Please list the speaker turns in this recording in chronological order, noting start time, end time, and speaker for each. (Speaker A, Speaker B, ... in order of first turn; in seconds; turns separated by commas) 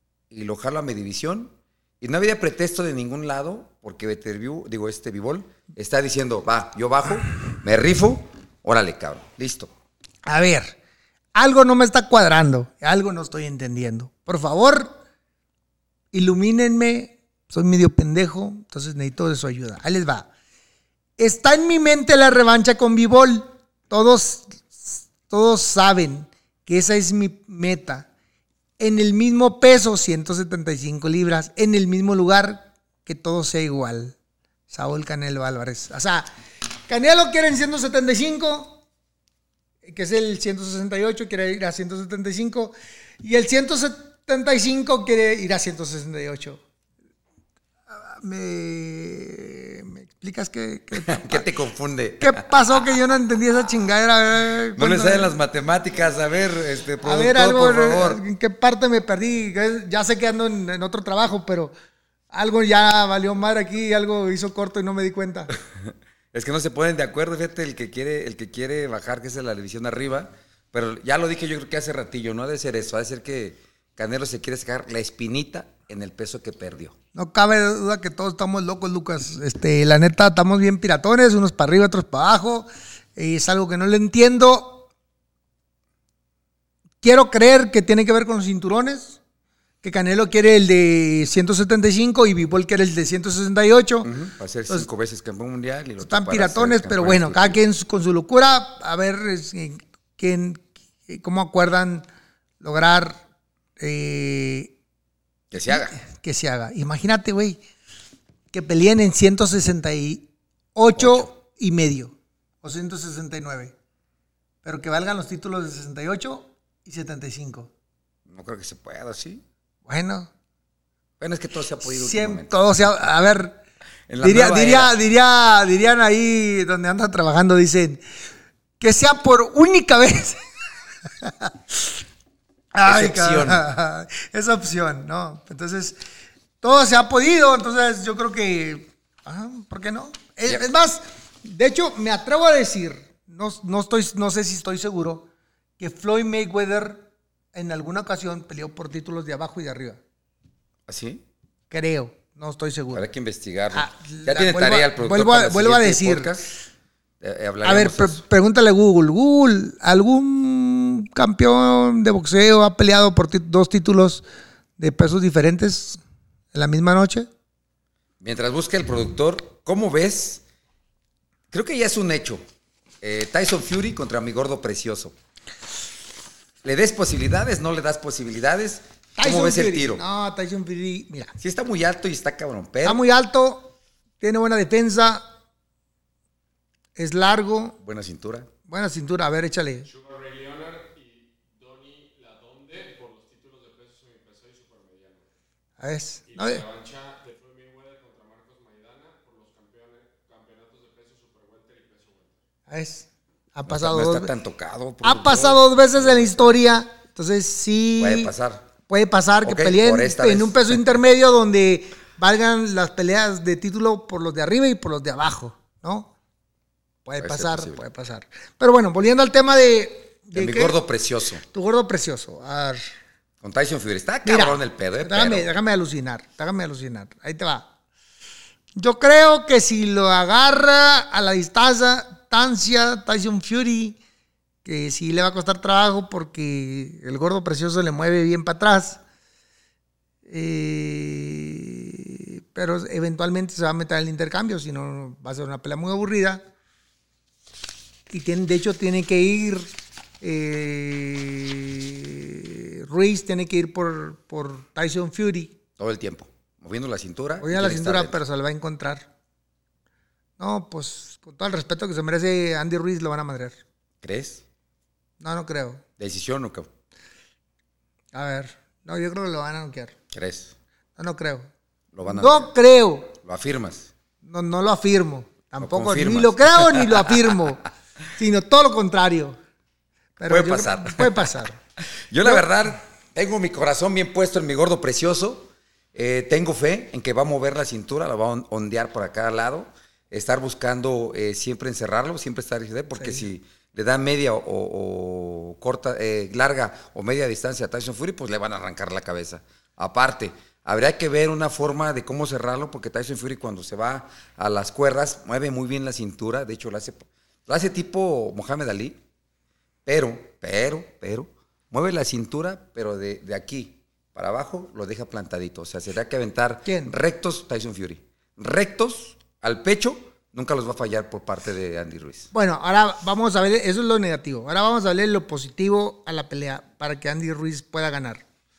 Speaker A: 0.3-9.7, Speaker B: 10.2-10.8, Speaker B: 11.3-15.0, Speaker B: 16.1-20.3, Speaker B: 21.2-28.1, Speaker B: 28.8-34.2, Speaker B: 34.7-36.3, Speaker B: 36.9-38.8, Speaker B: 39.8-46.6, Speaker B: 47.9-51.5, Speaker A: 51.0-53.0, Speaker B: 52.2-55.4, Speaker A: 54.8-58.2, Speaker B: 57.0-61.7, Speaker B: 62.3-65.5, Speaker A: 65.5-77.0, Speaker B: 77.2-84.9, Speaker B: 87.0-89.2, Speaker B: 89.8-94.1, Speaker A: 94.0-97.6, Speaker B: 96.0-102.1, Speaker B: 102.6-103.2, Speaker B: 103.8-104.7, Speaker A: 105.5-106.0, Speaker B: 105.5-107.6, Speaker B: 108.5-113.7, Speaker A: 111.0-111.3, Speaker B: 114.6-117.7, Speaker A: 118.3-119.4, Speaker B: 119.9-120.3, Speaker A: 121.2-122.5, Speaker B: 121.8-123.6, Speaker A: 124.1-124.9, Speaker B: 124.2-128.0, Speaker B: 128.8-130.4, Speaker B: 131.1-132.0, Speaker B: 132.7-136.0, Speaker A: 132.8-133.7, Speaker B: 136.6-145.3, Speaker B: 145.8-150.0, Speaker A: 150.9-151.2, Speaker B: 151.7-153.1, Speaker A: 152.9-156.5, Speaker B: 153.7-156.4, Speaker A: 157.2-158.2, Speaker B: 157.6-164.2, Speaker B: 164.8-166.0, Speaker B: 166.5-167.3, Speaker A: 168.2-170.4, Speaker A: 171.5-172.4, Speaker A: 173.0-175.2, Speaker A: 176.6-180.0, Speaker B: 179.2-181.3, Speaker A: 181.4-183.0, Speaker B: 182.8-185.2, Speaker B: 187.0-187.8, Speaker A: 187.8-188.5, Speaker B: 188.7-189.9, Speaker C: 189.9-195.2, Speaker B: 195.8-196.7, Speaker C: 196.3-202.3, Speaker B: 202.7-204.3, Speaker A: 203.7-206.6, Speaker B: 205.0-208.3, Speaker A: 208.0-208.7, Speaker B: 208.9-216.1, Speaker A: 209.4-210.9, Speaker B: 217.1-220.8, Speaker A: 217.2-217.8, Speaker A: 220.3-221.4, Speaker B: 221.4-222.8, Speaker A: 223.4-225.5, Speaker B: 224.2-227.7, Speaker B: 228.8-234.0, Speaker B: 234.6-239.0, Speaker B: 240.2-246.4, Speaker B: 248.1-249.7, Speaker B: 250.2-255.6, Speaker A: 255.8-258.2, Speaker B: 257.4-259.1, Speaker B: 260.4-263.6, Speaker A: 264.0-264.4, Speaker B: 265.2-265.8, Speaker A: 266.0-266.7, Speaker B: 268.1-269.9, Speaker A: 270.1-270.5, Speaker B: 271.0-271.5, Speaker A: 271.9-272.5, Speaker B: 272.1-273.1, Speaker A: 273.2-273.9, Speaker B: 274.2-277.6, Speaker A: 275.6-277.4, Speaker B: 278.2-279.4, Speaker B: 280.2-281.6, Speaker A: 280.3-281.4, Speaker A: 282.0-309.0, Speaker B: 282.2-282.5, Speaker B: 293.0-293.2, Speaker A: 309.9-322.3, Speaker B: 316.6-316.9, Speaker B: 322.3-328.2